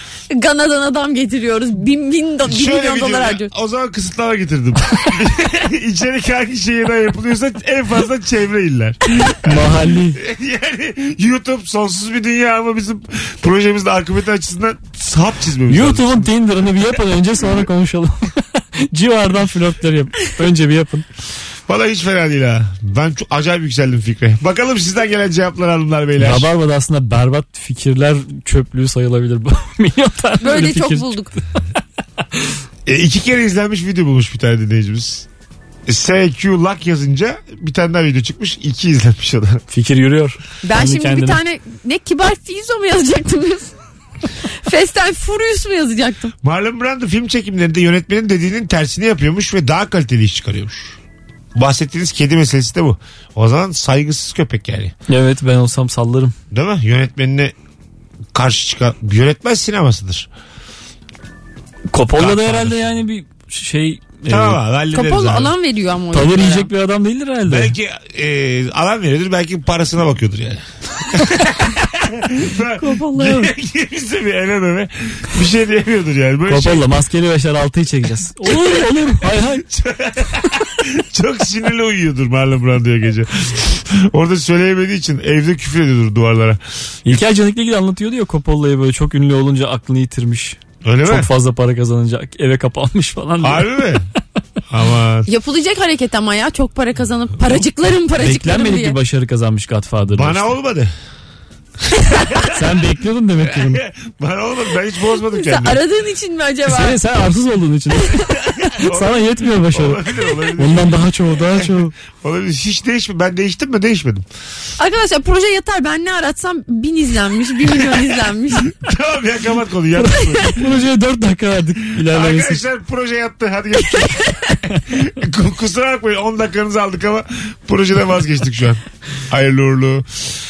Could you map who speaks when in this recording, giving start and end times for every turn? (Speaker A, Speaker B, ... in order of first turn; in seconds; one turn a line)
Speaker A: 0.3-3.5
Speaker B: 2.5-16.3
Speaker C: 9.4-10.2
Speaker C: 15.7-21.1
Speaker B: 21.7-26.5
Speaker C: 26.2-31.1
Speaker A: 30.4-31.4
Speaker B: 32.8-35.3
Speaker B: 35.9-39.6
Speaker C: 39.7-41.4
Speaker A: 40.6-43.7
Speaker A: 44.6-46.3
Speaker B: 46.4-51.0
Speaker B: 51.5-54.9
Speaker C: 55.1-56.3
Speaker B: 56.5-57.5
Speaker B: 58.3-60.3
Speaker C: 61.9-64.6
Speaker B: 62.1-62.8
Speaker B: 64.3-65.5
Speaker A: 64.9-66.7
Speaker C: 66.1-67.7
Speaker B: 67.5-76.9
Speaker C: 72.9-73.5
Speaker C: 76.5-79.6
Speaker B: 79.6-86.6
Speaker C: 87.0-94.0
Speaker B: 90.8-91.3
Speaker B: 93.4-94.1
Speaker B: 94.7-95.3
Speaker A: 95.2-99.0
Speaker C: 98.2-100.5
Speaker B: 100.1-100.9
Speaker B: 102.1-102.5
Speaker A: 102.2-102.4
Speaker C: 102.5-103.8
Speaker B: 103.4-105.8
Speaker A: 105.3-107.0
Speaker C: 106.7-111.9
Speaker B: 108.7-114.2
Speaker A: 114.8-118.7
Speaker B: 118.8-120.8
Speaker C: 120.0-122.6
Speaker B: 122.0-124.2
Speaker A: 123.9-124.3
Speaker B: 124.7-130.1